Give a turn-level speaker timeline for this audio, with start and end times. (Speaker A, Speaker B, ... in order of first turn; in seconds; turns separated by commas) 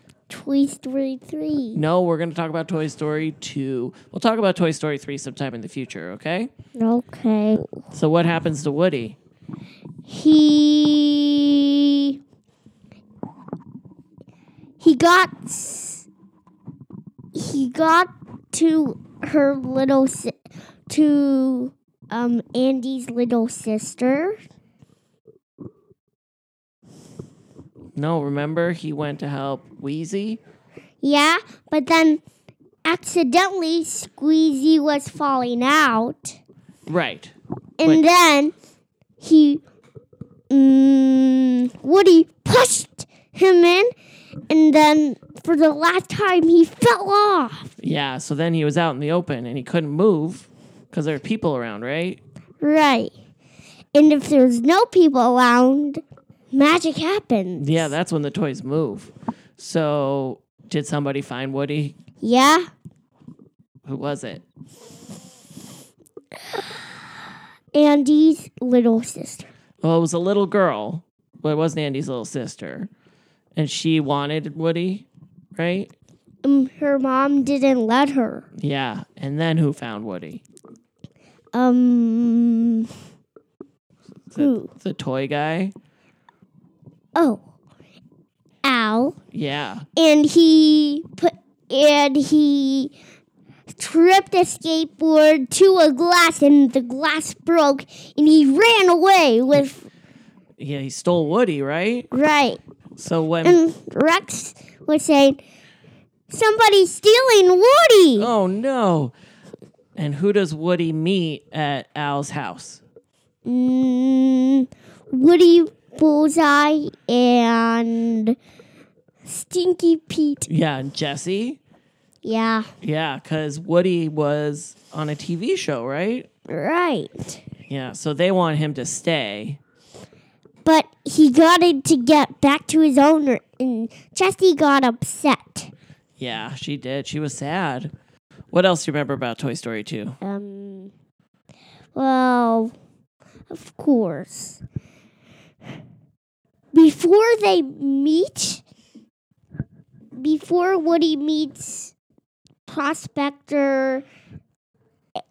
Speaker A: 0.3-1.8, Speaker B: 1.7-6.5, Speaker A: 6.8-7.8, Speaker B: 7.9-9.2, Speaker A: 10.1-12.1, Speaker A: 14.8-16.1, Speaker A: 17.3-20.4, Speaker A: 20.9-24.4, Speaker B: 27.9-30.4, Speaker A: 31.0-32.2, Speaker A: 32.8-36.4, Speaker B: 36.9-37.3, Speaker A: 37.8-38.5, Speaker A: 39.2-39.6, Speaker A: 40.5-43.9, Speaker A: 44.5-47.7, Speaker B: 47.8-52.2, Speaker A: 52.6-53.1, Speaker A: 53.9-57.9, Speaker B: 57.6-62.0, Speaker A: 62.2-62.7, Speaker B: 63.8-64.4, Speaker A: 67.7-69.5, Speaker B: 69.8-72.9, Speaker B: 73.5-75.9, Speaker A: 76.4-78.5, Speaker B: 78.6-80.4, Speaker A: 81.5-82.9, Speaker B: 84.3-85.7, Speaker A: 84.4-84.7, Speaker A: 87.1-87.4, Speaker A: 88.6-89.2, Speaker B: 89.3-89.8, Speaker A: 90.0-92.9, Speaker A: 93.7-99.8, Speaker B: 100.6-102.1, Speaker A: 102.1-102.6, Speaker B: 103.0-103.6, Speaker A: 103.4-105.4, Speaker A: 106.3-108.3, Speaker B: 108.2-109.1, Speaker B: 110.0-112.8, Speaker A: 113.4-118.3, Speaker A: 119.2-120.5, Speaker B: 120.5-121.6, Speaker A: 122.2-122.7, Speaker B: 122.8-126.3, Speaker A: 126.5-127.4, Speaker B: 127.7-129.6, Speaker A: 130.6-135.7, Speaker B: 136.2-137.9, Speaker B: 138.5-140.2, Speaker A: 140.2-140.9, Speaker A: 141.9-142.7, Speaker A: 143.5-144.6, Speaker A: 146.7-148.6, Speaker A: 150.1-151.9, Speaker A: 152.7-154.0